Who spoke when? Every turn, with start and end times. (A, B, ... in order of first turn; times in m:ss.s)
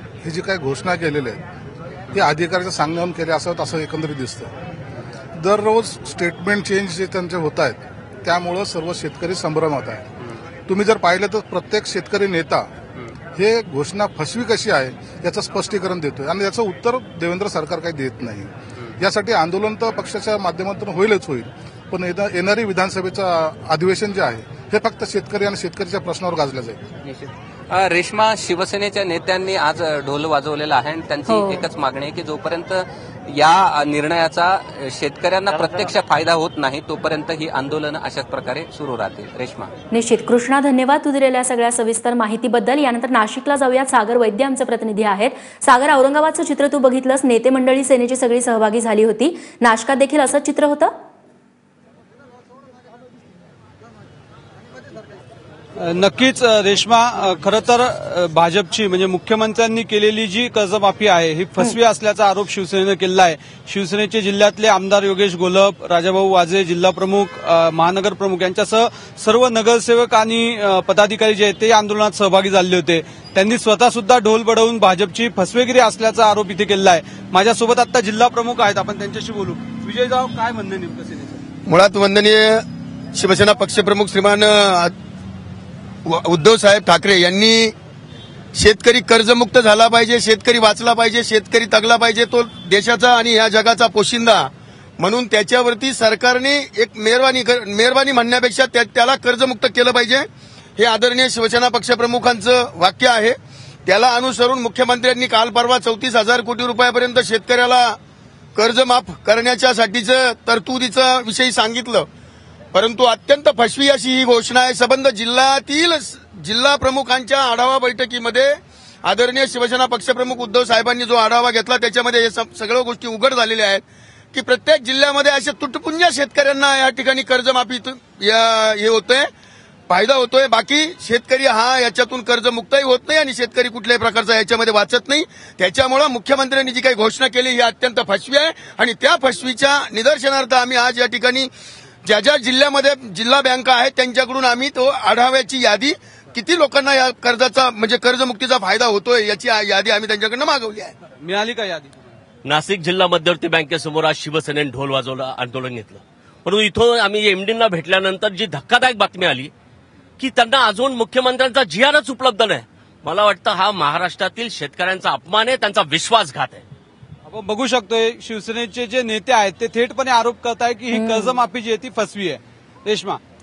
0:00.2-0:01.4 A
0:02.1-0:04.5 A
0:05.3-0:10.0 A
0:10.7-0:12.7 A
0:13.4-0:26.8 A
0:27.0-0:39.7 B
0:31.3-0:31.6 C
0:39.9-0:50.9 C
0:55.8-1:21.4 D
1:21.7-1:24.9 E
1:26.0-1:27.7 E
1:28.5-1:48.0 E
1:48.5-1:52.1 E
1:52.7-2:09.3 E
2:09.9-2:21.5 E
2:22.0-2:30.9 E
2:31.2-2:32.0 D
2:32.4-2:39.5 F
2:40.2-2:46.6 F
2:47.3-2:53.2 D
2:50.9-2:51.4 C